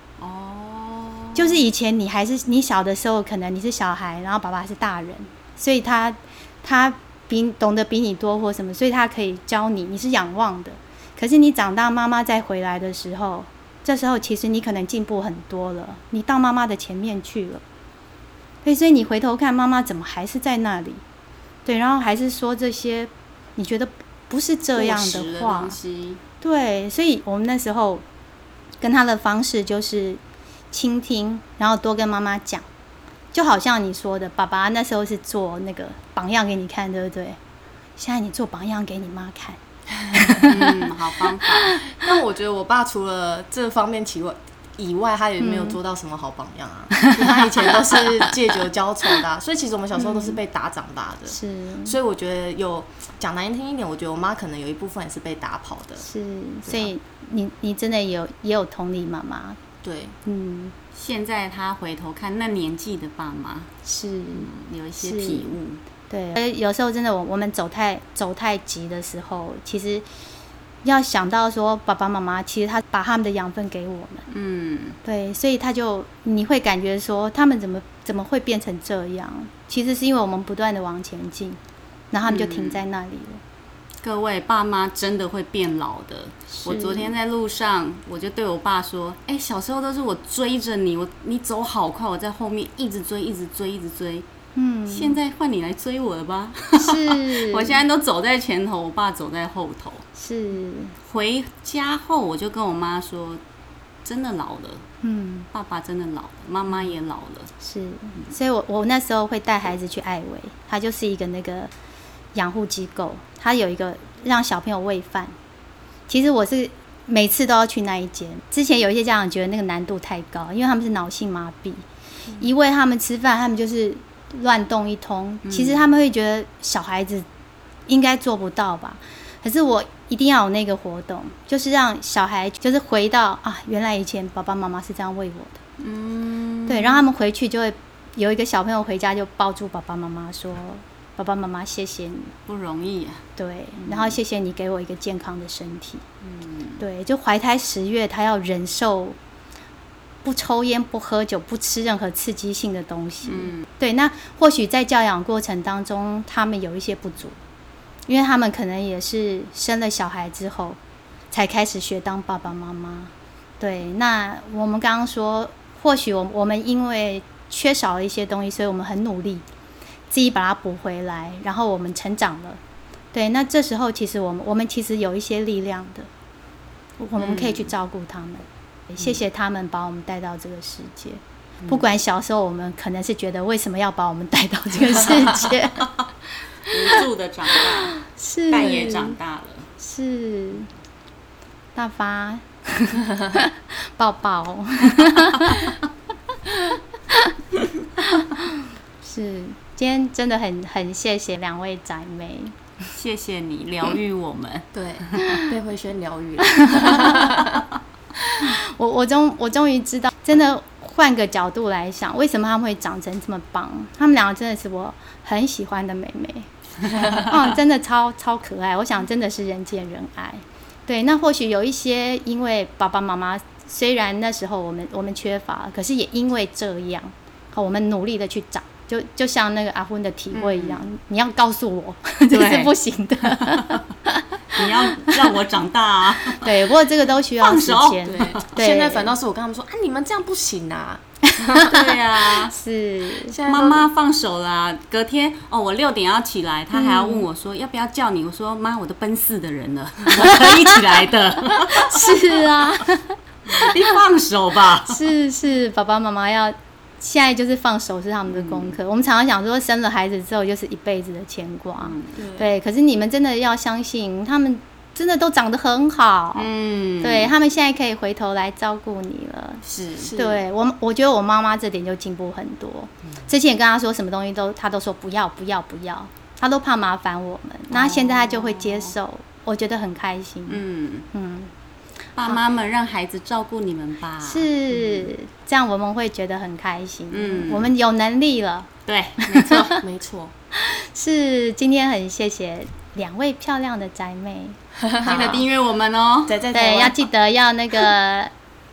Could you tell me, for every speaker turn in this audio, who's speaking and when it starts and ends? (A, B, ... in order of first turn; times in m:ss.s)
0:00.2-0:01.6 A
0:01.4-0:17.6 B
0:18.6-0:21.0 B
0:21.6-0:25.8 B
0:24.8-0:26.2 A
0:26.4-0:28.0 B
0:28.8-0:30.2 B
0:30.7-0:32.6 B
0:33.3-0:37.4 B
0:38.0-0:39.6 B
0:40.2-0:40.5 B
0:40.4-0:41.7 A
0:41.9-0:56.0 C
0:45.4-0:45.8 B
0:50.0-0:50.4 B
0:51.3-0:52.0 B
0:56.0-0:59.6 B
0:59.8-1:00.2 C
1:00.2-1:00.7 B
1:00.9-1:03.7 A
1:03.8-1:04.5 B
1:04.3-1:05.8 A
1:05.0-1:05.6 B
1:06.1-1:10.1 B
1:10.8-1:14.3 B
1:14.3-1:15.0 A
1:15.0-1:21.6 B
1:22.1-1:23.4 B
1:22.3-1:22.8 A
1:24.0-1:34.3 A
1:26.6-1:27.1 B
1:34.6-1:35.2 B
1:34.9-1:40.0 A
1:36.8-1:37.8 B
1:40.2-1:41.0 B
1:41.1-1:43.4 A
1:44.0-1:44.8 A
1:45.0-1:45.5 B
1:45.5-1:47.5 A
1:47.6-1:51.7 B
1:52.3-1:55.4 B
1:56.1-2:01.8 B
2:02.4-2:07.3 B
2:05.4-2:05.8 A
2:07.9-2:15.6 B
2:15.8-2:17.1 A
2:16.7-2:22.3 B
2:22.5-2:23.2 A
2:23.4-2:26.0 B
2:23.8-2:24.2 A
2:26.2-2:26.8 A
2:26.8-2:29.2 B
2:30.2-2:37.4 B
2:33.3-2:33.6 A
2:38.1-2:40.8 B
2:41.3-2:49.4 B
2:50.1-2:52.6 B
2:53.1-2:56.1 B
2:57.0-3:05.9 B
2:57.2-2:57.6 A
3:06.6-3:08.0 A
3:07.9-3:09.2 B
3:08.5-3:09.7 A
3:09.8-3:10.7 B
3:11.7-3:15.8 B
3:16.5-3:17.3 B
3:18.0-3:22.6 B
3:22.9-3:25.4 A
3:24.7-3:27.6 C
3:26.5-3:27.3 B
3:28.4-3:55.2 B
3:50.3-3:50.8 A
3:52.3-3:52.7 A
3:53.2-3:53.7 A
3:54.5-3:56.7 A
3:56.4-3:59.1 B
3:57.4-3:58.4 A
3:58.0-4:01.7 C
4:01.3-4:03.4 B
4:01.6-4:02.5 A
4:03.3-4:03.9 C
4:03.4-4:12.4 A
4:06.7-4:07.2 B
4:10.2-4:10.7 B
4:11.7-4:13.7 B
4:13.5-4:15.0 A
4:14.9-4:26.5 B
4:18.3-4:18.7 A
4:21.8-4:22.3 A
4:26.3-4:27.3 A
4:27.0-4:29.6 B
4:29.6-4:30.1 A
4:30.0-4:30.4 C
4:30.1-4:40.6 B
4:37.7-4:38.9 A
4:40.5-4:41.1 A
4:41.1-4:41.5 B
4:42.2-4:45.1 A
4:44.2-4:48.7 B
4:47.1-4:47.7 A
4:48.9-4:49.8 A
4:49.2-4:49.8 B
4:49.8-4:50.3 C
4:50.6-4:55.4 B
4:54.8-4:55.4 C
4:55.0-4:56.4 A
4:56.3-4:57.0 C
4:56.5-4:58.3 B